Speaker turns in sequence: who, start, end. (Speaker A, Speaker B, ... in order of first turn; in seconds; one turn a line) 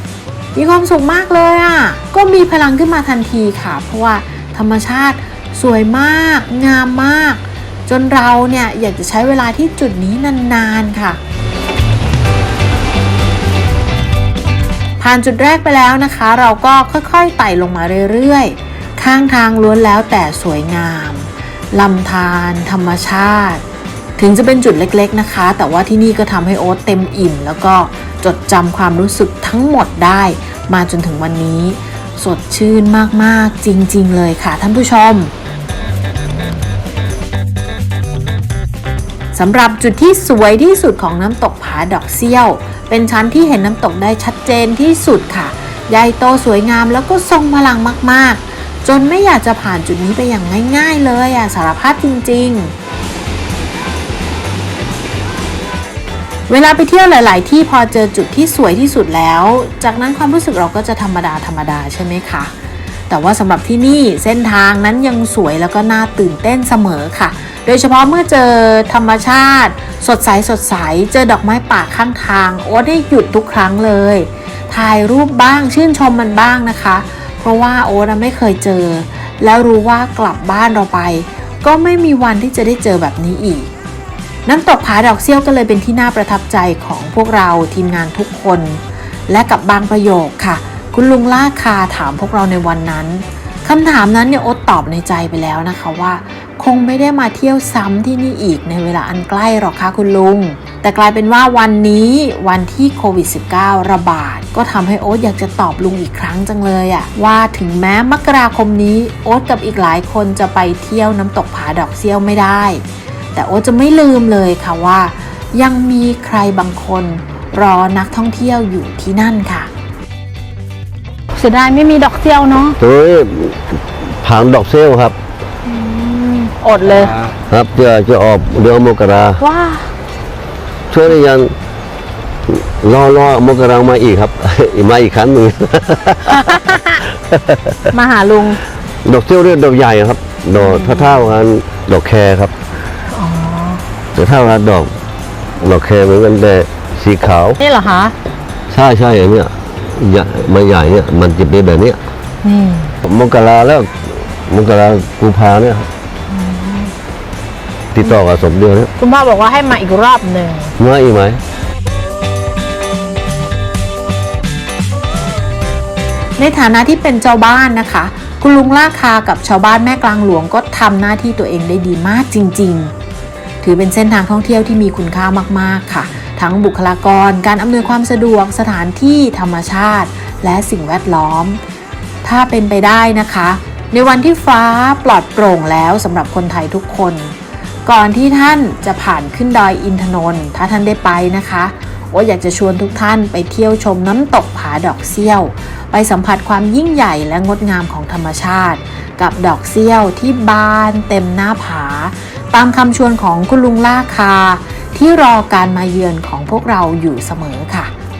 Speaker A: 0.5-11.2
Speaker A: 15.0-23.6
Speaker A: 24.2-35.3
Speaker A: 39.3-52.7
Speaker A: 56.5-62.5
Speaker A: 63.1-83.7
Speaker A: 84.5-112.8
Speaker A: 113.3-119.7
Speaker B: 121.3-122.8
Speaker C: 122.8-125.2
Speaker B: 125.6-127.2
Speaker C: 127.5-129.4
Speaker B: 129.4-129.9
Speaker C: 130.9-131.5
Speaker C: 132.5-137.9
Speaker B: 137.9-138.6
Speaker C: 139.0-142.5
Speaker B: 140.7-141.1
Speaker B: 143.1-143.8
Speaker C: 144.1-144.9
Speaker C: 145.6-147.6
Speaker B: 147.6-148.1
Speaker C: 148.7-152.0
Speaker B: 152.4-152.9
Speaker C: 153.0-155.9
Speaker B: 156.3-156.9
Speaker C: 157.9-158.9
Speaker B: 159.0-160.7
Speaker C: 160.8-161.4
Speaker A: 166.4-172.9
Speaker A: 173.6-181.6
Speaker A: 182.2-207.9